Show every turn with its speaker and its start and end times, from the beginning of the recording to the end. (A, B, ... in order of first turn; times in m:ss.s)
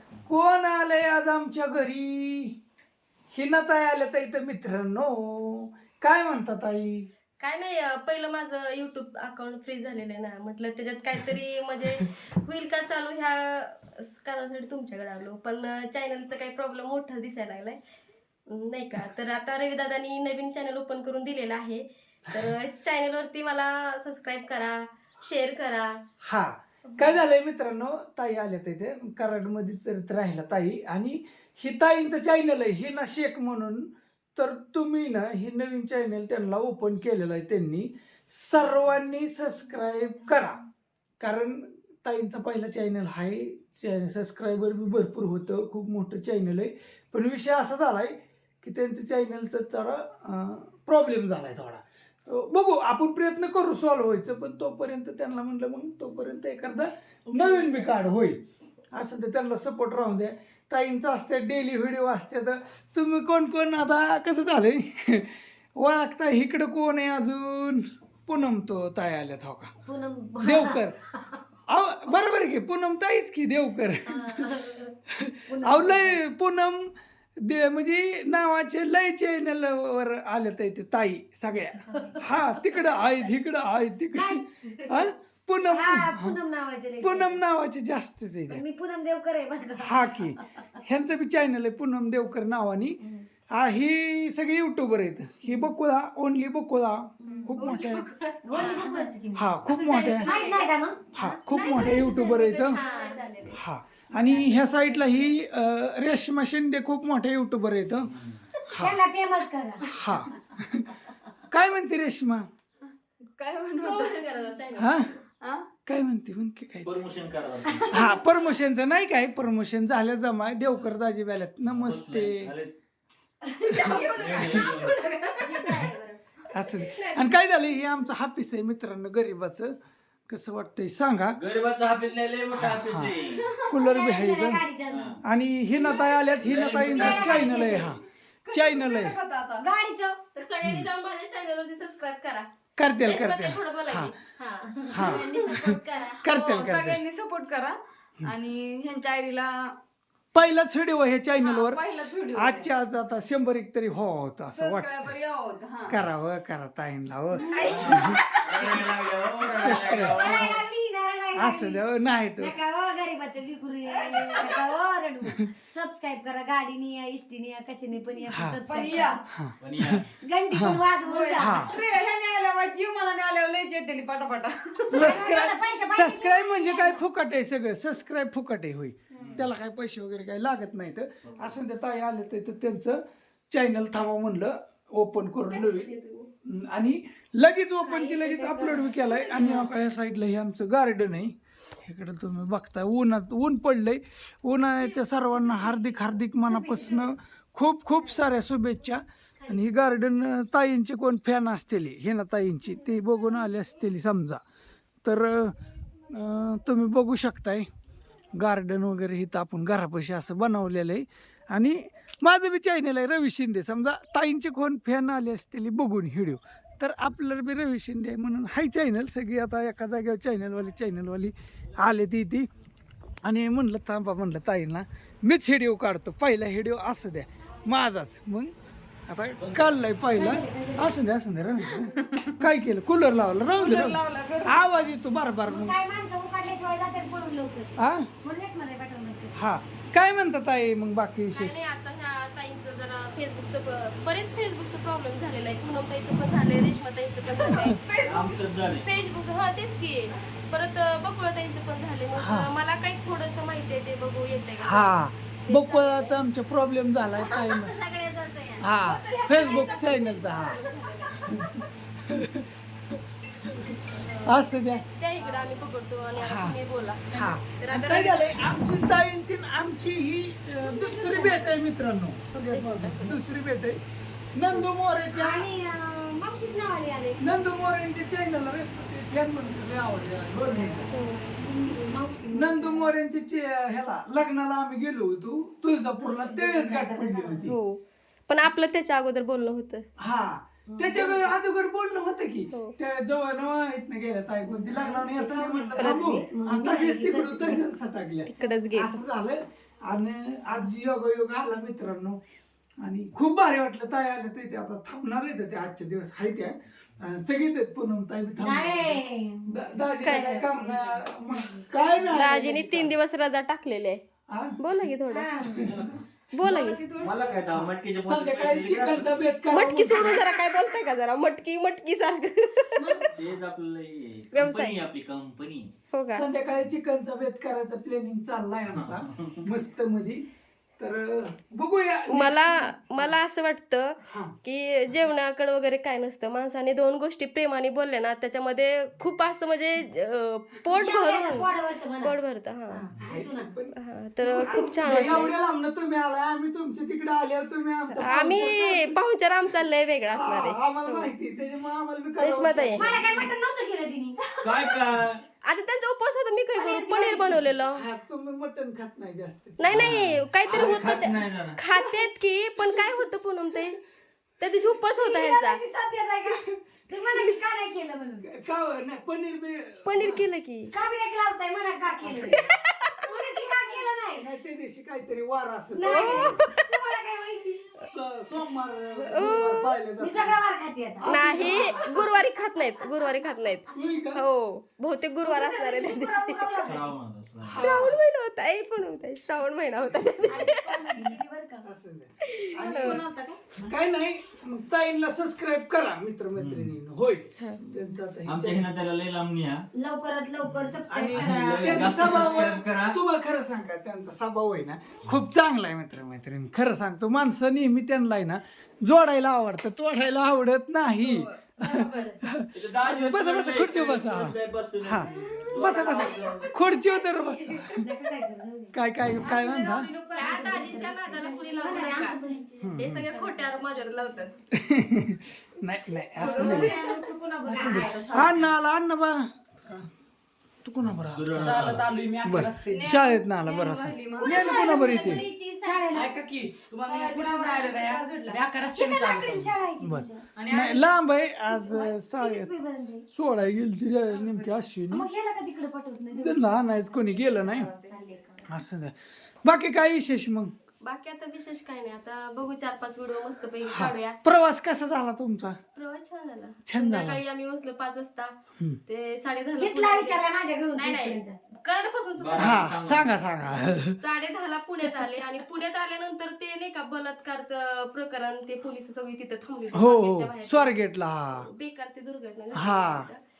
0:00.3-0:02.5 A
0:03.3-0:07.1 A
0:07.4-0:17.8 B
0:18.5-0:25.9 B
0:26.2-0:33.8 A
0:34.4-0:40.6 A
0:41.2-0:58.4 A
0:57.3-0:58.0 B
0:58.9-1:09.7 A
1:09.9-1:11.4 C
1:10.4-1:11.0 A
1:11.7-1:14.6 A
1:14.2-1:14.8 C
1:15.1-1:26.4 A
1:15.5-1:16.2 C
1:21.8-1:23.4 B
1:24.1-1:24.5 C
1:25.7-1:27.4 C
1:27.0-1:28.6 A
1:28.5-1:30.7 C
1:29.8-1:33.0 A
1:33.6-1:38.0 A
1:35.4-1:35.7 C
1:37.2-1:37.6 C
1:37.5-1:39.1 B
1:38.5-1:39.6 C
1:39.4-1:40.3 A
1:39.7-1:43.6 B
1:40.1-1:41.0 C
1:41.2-1:42.8 A
1:42.7-1:43.2 C
1:43.5-1:48.1 A
1:44.2-1:45.2 C
1:48.1-1:48.4 D
1:48.7-1:49.0 A
1:48.8-1:49.8 C
1:49.9-1:51.0 A
1:51.5-1:52.5 A
1:53.4-1:54.2 E
1:53.8-1:55.2 B
1:54.8-1:55.1 A
1:55.4-1:55.7 E
1:55.9-1:57.0 A
1:56.8-1:58.1 D
1:57.7-1:58.1 E
1:57.9-2:02.5 A
2:01.6-2:02.8 D
2:03.5-2:07.3 B
2:04.1-2:05.0 D
2:05.0-2:05.6 E
2:05.7-2:05.9 C
2:06.5-2:09.7 A
2:10.3-2:11.4 A
2:11.4-2:13.4 D
2:12.5-2:14.6 A
2:13.3-2:13.7 E
2:13.8-2:15.2 C
2:14.9-2:15.2 D
2:15.2-2:19.2 A
2:15.7-2:19.7 E
2:16.4-2:17.5 D
2:16.9-2:17.9 C
2:19.6-2:20.2 C
2:20.3-2:22.5 B
2:22.8-2:24.1 A
2:23.0-2:26.2 B
2:24.9-2:27.0 A
2:26.2-2:29.7 E
2:30.3-2:35.1 A
2:31.4-2:32.7 E
2:34.5-2:36.0 E
2:35.9-2:38.2 A
2:37.4-2:38.4 E
2:37.6-2:38.1 C
2:37.6-2:40.6 D
2:39.6-2:40.5 A
2:39.6-2:41.8 C
2:41.4-2:42.6 A
2:42.4-2:49.2 C
2:44.0-2:44.6 E
2:48.3-2:48.6 A
2:48.7-2:49.2 E
2:49.3-2:50.9 A
2:49.6-2:50.1 D
2:50.2-2:51.6 C
2:51.0-2:55.1 E
2:51.4-2:51.8 A
2:54.9-3:03.0 A
2:54.9-2:57.0 C
2:59.2-2:59.5 D
3:03.5-3:05.9 A
3:05.5-3:06.3 B
3:06.5-3:11.3 A
3:07.8-3:09.7 C
3:11.8-3:24.4 A
3:16.3-3:17.1 C
3:25.0-3:25.6 A
3:26.1-3:27.7 A
3:28.4-3:42.5 A
3:43.2-3:48.5 A
3:49.1-3:55.8 A
3:49.4-3:49.8 D
3:50.2-3:51.0 C
3:51.7-3:52.4 E
3:53.5-3:54.6 E
3:55.4-3:59.4 C
3:57.8-3:58.1 A
3:59.4-4:01.6 A
4:01.3-4:07.8 B
4:07.4-4:08.5 E
4:08.0-4:08.9 D
4:08.8-4:16.2 B
4:12.2-4:12.5 A
4:14.6-4:17.8 A
4:17.2-4:21.6 B
4:18.6-4:20.6 A
4:22.0-4:22.5 A
4:23.4-4:24.8 A
4:23.8-4:28.5 B
4:25.2-4:25.7 E
4:26.2-4:26.6 A
4:27.1-4:33.8 A
4:30.6-4:31.6 C
4:32.5-4:33.2 B
4:34.4-4:35.5 A
4:35.1-4:37.4 C
4:37.2-4:40.9 A
4:40.5-4:43.0 C
4:40.9-4:41.4 B
4:42.3-4:47.6 A
4:46.0-4:47.5 C
4:47.5-4:49.9 B
4:50.0-5:02.2 A
4:50.7-4:51.3 C
4:54.4-4:57.6 C
4:55.7-4:56.2 B
4:58.3-4:59.0 B
4:58.4-4:58.6 C
5:02.8-5:13.0 A
5:08.4-5:09.8 C
5:10.0-5:10.5 B
5:10.5-5:10.8 C
5:12.1-5:14.0 B
5:14.3-5:14.6 A
5:14.6-5:15.4 B
5:15.1-5:15.6 C
5:15.6-5:16.1 D
5:16.4-5:16.8 B
5:16.4-5:17.4 E
5:16.9-5:19.3 D
5:17.5-5:20.2 A
5:19.5-5:23.1 B
5:22.8-5:23.1 C
5:23.1-5:25.7 D
5:24.3-5:24.8 B
5:25.9-5:26.2 B
5:26.1-5:30.2 A
5:28.7-5:29.4 D
5:30.8-5:33.1 A
5:32.1-5:42.8 B
5:34.1-5:34.3 A
5:40.7-5:42.1 C
5:42.7-5:43.5 C
5:43.0-5:49.0 A
5:43.8-5:45.3 B
5:44.3-5:45.3 C
5:47.9-5:51.1 B
5:50.1-5:53.3 A
5:52.2-5:52.9 B
5:52.8-5:54.8 C
5:54.4-5:55.2 D
5:55.5-5:57.8 B
5:56.6-5:57.5 C
5:57.8-6:00.0 A
5:59.6-6:03.8 B
5:59.7-6:01.6 D
6:04.4-6:05.6 B
6:05.0-6:08.3 C
6:08.2-6:10.2 A
6:09.9-6:10.7 B
6:10.7-6:12.4 C
6:12.0-6:12.4 A
6:13.0-6:14.3 C
6:14.2-6:16.4 A
6:15.7-6:17.9 C
6:15.8-6:16.6 B
6:17.8-6:20.4 A
6:19.1-6:19.7 B
6:20.0-6:22.2 C
6:21.0-6:21.8 A
6:21.1-6:26.8 B
6:22.8-6:23.2 C
6:23.7-6:24.2 A
6:25.2-6:27.0 C
6:26.6-6:27.7 D
6:27.4-6:28.0 A
6:27.6-6:31.0 B
6:30.2-6:31.7 C
6:31.6-6:33.0 A
6:32.2-6:33.0 B
6:32.6-6:33.5 E
6:33.6-6:38.7 A
6:36.4-6:36.8 D
6:38.2-6:39.7 D
6:39.8-6:42.6 C
6:40.4-6:43.0 D
6:40.9-6:57.8 A
6:51.0-6:52.2 B
6:51.7-6:52.2 C
6:52.5-6:56.6 D
6:55.2-6:55.5 E
6:55.6-6:57.8 B
6:57.1-6:57.6 E
6:57.8-6:58.8 C
6:58.7-6:59.9 A
6:59.2-7:00.9 E
7:00.1-7:02.2 B
7:00.3-7:04.1 C
7:02.6-7:03.1 A
7:02.8-7:04.4 B
7:04.6-7:06.7 A
7:06.2-7:08.5 E
7:06.2-7:06.9 B
7:07.4-7:09.3 A
7:10.6-7:15.2 A
7:10.8-7:11.9 D
7:11.3-7:15.0 E
7:14.2-7:16.2 C
7:15.6-7:19.5 E
7:16.8-7:20.2 C
7:19.8-7:22.6 A
7:20.4-7:20.9 E
7:21.5-7:23.0 C
7:23.1-7:25.1 A
7:24.1-7:24.6 E
7:24.9-7:26.9 C
7:26.2-7:27.7 A
7:27.1-7:28.0 E
7:27.9-7:28.5 C
7:28.5-7:28.9 A
7:29.4-7:30.5 A
7:30.8-7:34.2 B
7:33.7-7:35.6 A
7:35.8-7:38.3 B
7:36.7-7:37.2 A
7:38.9-7:42.7 B
7:39.6-7:41.4 C
7:42.2-7:43.2 D
7:42.4-7:44.0 A
7:44.0-7:53.2 B
7:49.7-7:51.5 A
7:52.5-7:53.1 A